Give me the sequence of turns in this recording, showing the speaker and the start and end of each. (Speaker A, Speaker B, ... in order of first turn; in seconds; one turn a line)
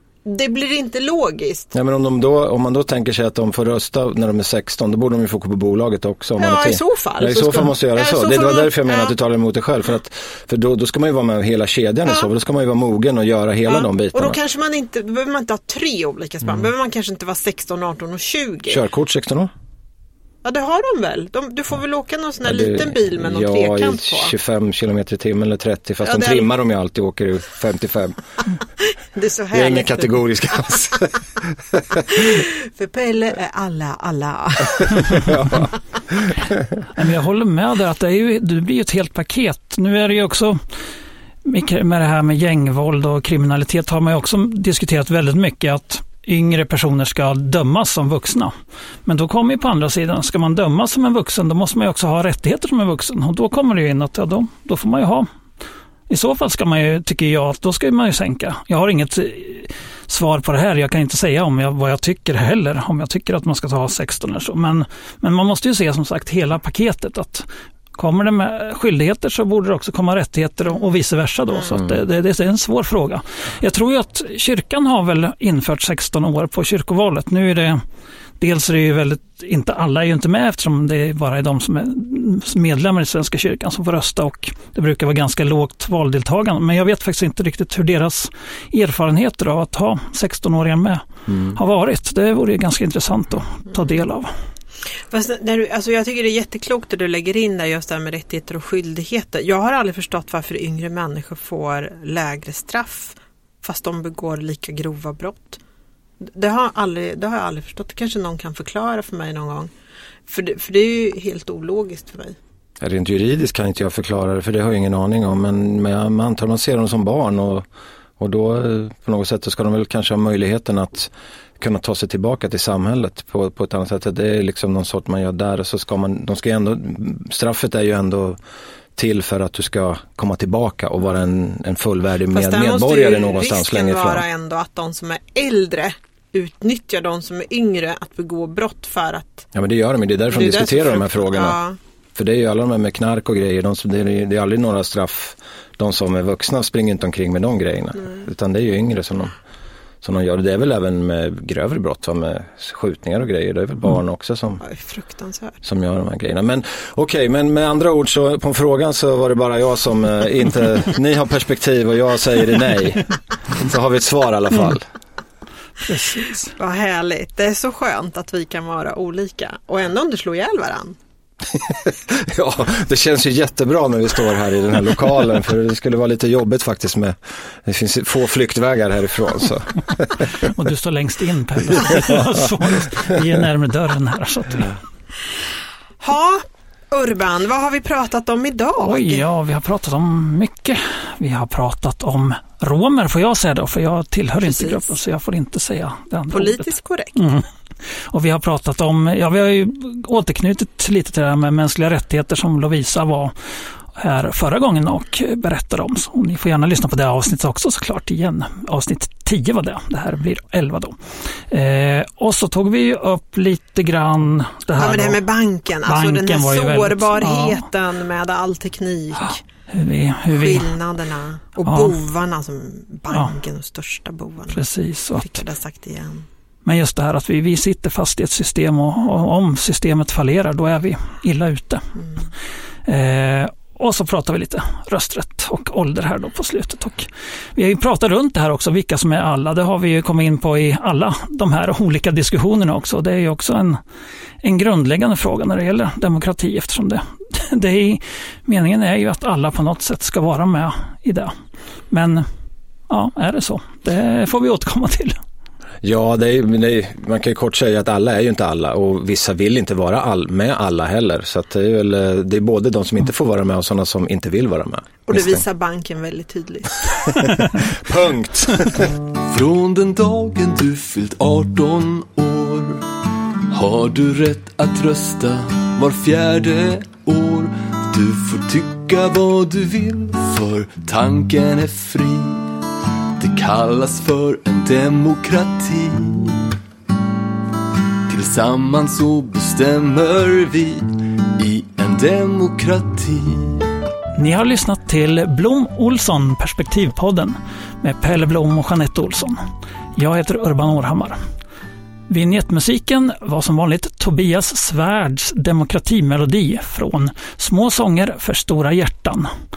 Speaker A: 0.2-1.7
Speaker B: 1.7-14.4
Speaker A: 6.4-9.1
Speaker A: 13.7-18.8
Speaker B: 18.7-19.5
Speaker A: 20.4-24.3
Speaker B: 22.4-28.2
Speaker A: 26.0-26.5
Speaker A: 29.1-30.2
Speaker B: 29.5-32.3
Speaker A: 32.1-35.3
Speaker B: 35.1-36.6
Speaker C: 36.9-40.6
Speaker C: 41.4-48.5
Speaker C: 49.0-55.3
Speaker C: 56.1-77.8
Speaker C: 78.4-94.3
Speaker A: 95.1-105.6
Speaker A: 106.2-109.7
Speaker A: 110.3-112.4
Speaker B: 112.8-117.7
Speaker B: 118.2-128.4
Speaker B: 128.9-134.2
Speaker A: 132.3-139.5
Speaker B: 139.5-141.6
Speaker A: 140.3-141.8
Speaker B: 142.1-149.3
Speaker B: 150.0-154.6
Speaker A: 154.6-155.6
Speaker B: 155.6-164.9
Speaker C: 165.8-166.5
Speaker A: 166.6-171.0
Speaker B: 171.5-180.4
Speaker C: 180.4-184.8
Speaker A: 186.0-189.2
Speaker C: 188.8-197.4
Speaker A: 194.4-194.9
Speaker A: 196.3-197.3
Speaker C: 197.9-203.3
Speaker C: 203.9-211.0
Speaker C: 211.5-215.2
Speaker A: 214.8-219.4
Speaker C: 215.8-217.6
Speaker C: 219.7-220.7
Speaker A: 220.3-224.6
Speaker C: 221.7-221.9
Speaker C: 224.5-225.4
Speaker A: 225.2-226.3
Speaker C: 226.6-231.9
Speaker C: 232.8-243.8
Speaker C: 244.4-251.3
Speaker C: 251.9-252.2
Speaker C: 252.9-255.2
Speaker B: 255.8-265.4
Speaker A: 265.1-267.3
Speaker B: 267.0-268.9
Speaker D: 269.2-272.9
Speaker D: 273.5-282.5
Speaker D: 283.2-286.5
Speaker D: 288.1-293.6
Speaker C: 294.2-299.4
Speaker C: 299.9-301.2
Speaker C: 302.1-309.3